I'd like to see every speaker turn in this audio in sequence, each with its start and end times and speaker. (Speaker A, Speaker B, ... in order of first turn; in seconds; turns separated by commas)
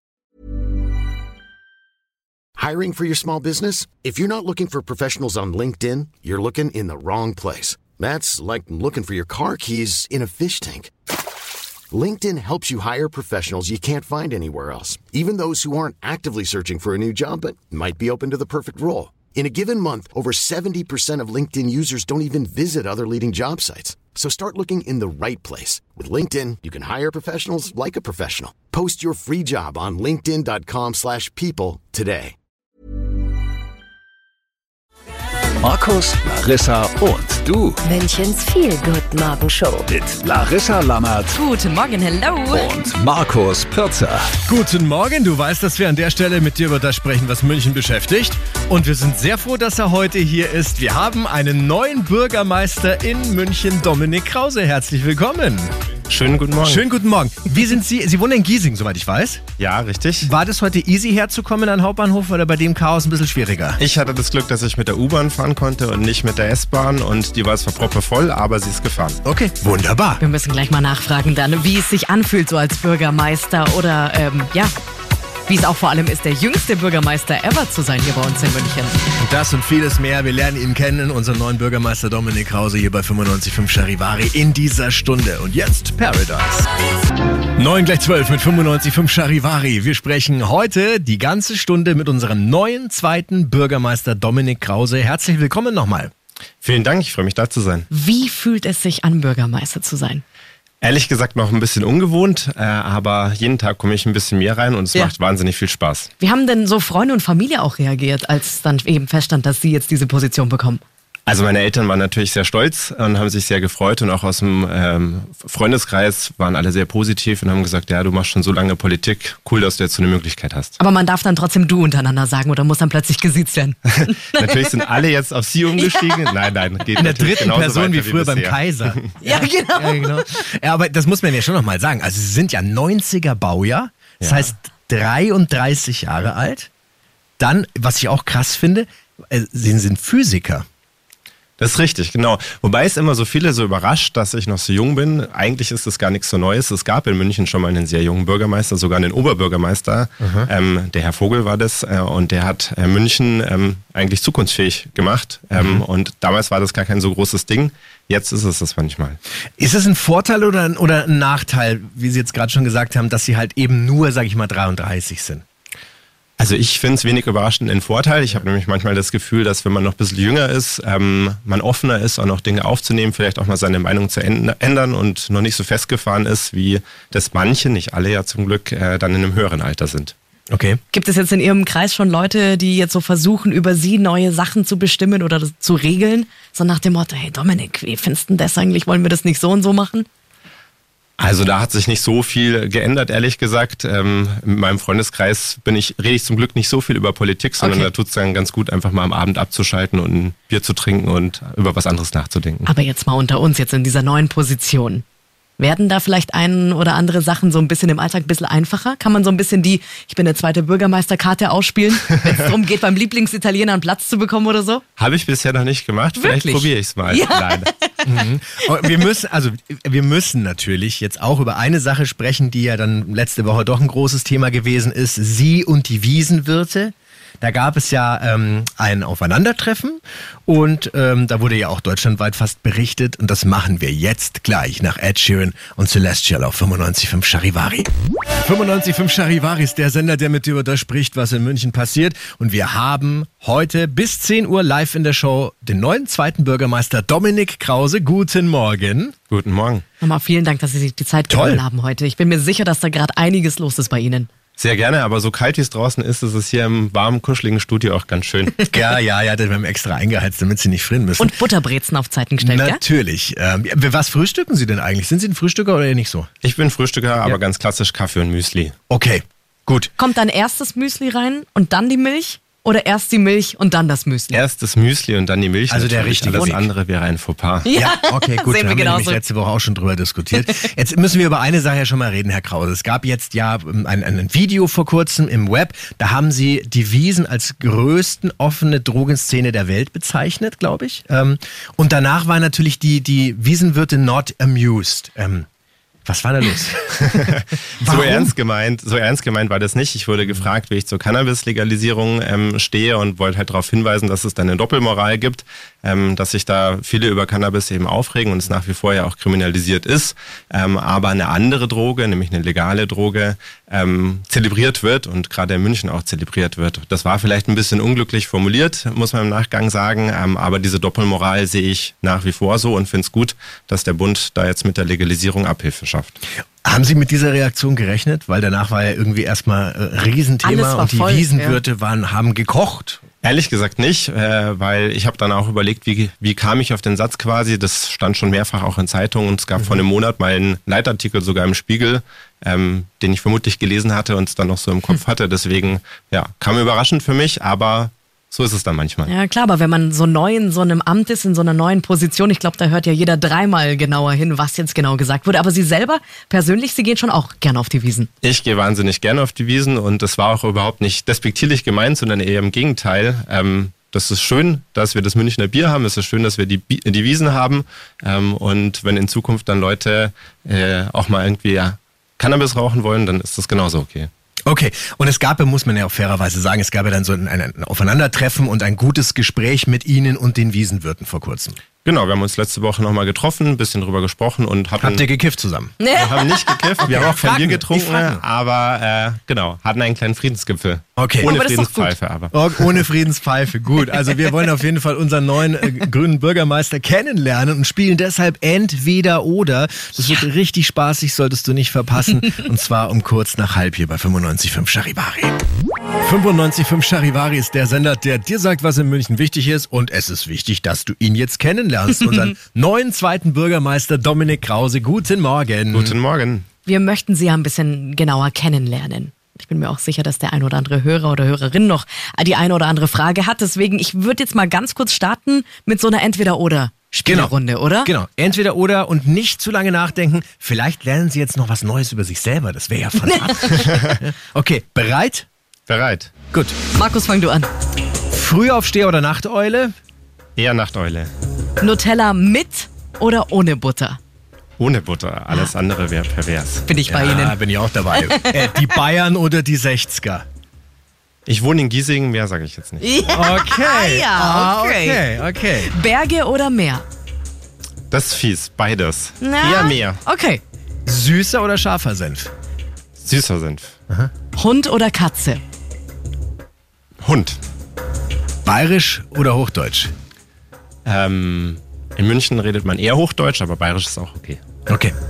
Speaker A: 2.6-10.9, Speaker A: 11.9-32.4, Speaker B: 35.6-37.8, Speaker C: 37.8-39.9, Speaker B: 39.9-41.4, Speaker D: 41.3-42.7, Speaker B: 42.6-44.2, Speaker E: 44.5-55.7, Speaker F: 56.1-56.8, Speaker E: 56.6-59.4, Speaker F: 59.6-60.3, Speaker E: 60.2-63.8, Speaker F: 63.8-69.2, Speaker E: 69.2-70.2, Speaker D: 70.2-74.7, Speaker D: 75.5-79.0, Speaker E: 79.2-86.7, Speaker E: 87.6-96.1, Speaker F: 96.6-97.9, Speaker D: 97.9-100.2, Speaker F: 100.8-106.1, Speaker D: 106.2-110.8, Speaker F: 111.3-120.8, Speaker D: 120.8-124.9, Speaker F: 124.3-129.0, Speaker D: 125.8-126.3, Speaker E: 127.0-136.7, Speaker D: 129.2-130.3, Speaker E: 137.4-140.6, Speaker F: 141.6-159.2, Speaker E: 150.2-150.5, Speaker E: 155.6-155.8, Speaker E: 159.6-165.4, Speaker F: 166.4-180.1, Speaker E: 180.5-180.8, Speaker D: 180.9-190.1, Speaker F: 191.2-202.7, Speaker D: 197.6-197.9, Speaker D: 202.7-205.0, Speaker D: 205.6-214.8, Speaker F: 215.0-217.7, Speaker D: 216.2-218.0, Speaker E: 218.0-237.9, Speaker E: 238.4-249.2, Speaker F: 249.3-249.8, Speaker D: 250.0-254.3, Speaker E: 251.3-251.6, Speaker F: 254.6-258.6, Speaker E: 258.7-261.4, Speaker D: 261.2-262.8, Speaker E: 262.4-266.3, Speaker F: 266.4-268.8, Speaker E: 268.9-269.9, Speaker D: 270.0-274.4, Speaker F: 274.3-277.7, Speaker E: 275.7-276.7, Speaker D: 277.6-279.2, Speaker E: 277.7-295.5, Speaker E: 296.1-298.3, Speaker F: 297.9-326.2, Speaker E: 326.6-333.0, Speaker D: 330.4-331.6, Speaker F: 333.2-349.1, Speaker D: 349.1-358.1, Speaker F: 358.2-374.1, Speaker E: 374.5-381.6, Speaker F: 381.9-385.1, Speaker E: 384.8-385.8, Speaker D: 385.8-387.2, Speaker F: 385.9-392.8, Speaker E: 386.9-388.2, Speaker E: 391.0-391.3, Speaker D: 391.2-392.0, Speaker E: 392.3-405.4, Speaker E: 406.0-416.0, Speaker F: 415.7-416.5, Speaker D: 416.7-427.9, Speaker E: 427.1-435.3, Speaker D: 433.1-433.6, Speaker F: 435.7-436.1, Speaker D: 436.7-437.5, Speaker E: 438.1-439.7, Speaker F: 440.4-441.1, Speaker D: 441.6-444.0, Speaker F: 444.6-446.6, Speaker D: 446.7-447.4, Speaker E: 446.9-450.2, Speaker D: 447.9-448.7, Speaker F: 451.3-453.1, Speaker D: 452.8-456.9, Speaker E: 453.1-455.7, Speaker F: 457.9-460.0, Speaker D: 459.2-460.4, Speaker E: 460.9-462.3, Speaker F: 463.0-463.8, Speaker D: 464.4-465.4, Speaker F: 467.0-467.4, Speaker E: 468.4-469.9, Speaker F: 470.9-474.4, Speaker E: 474.7-474.9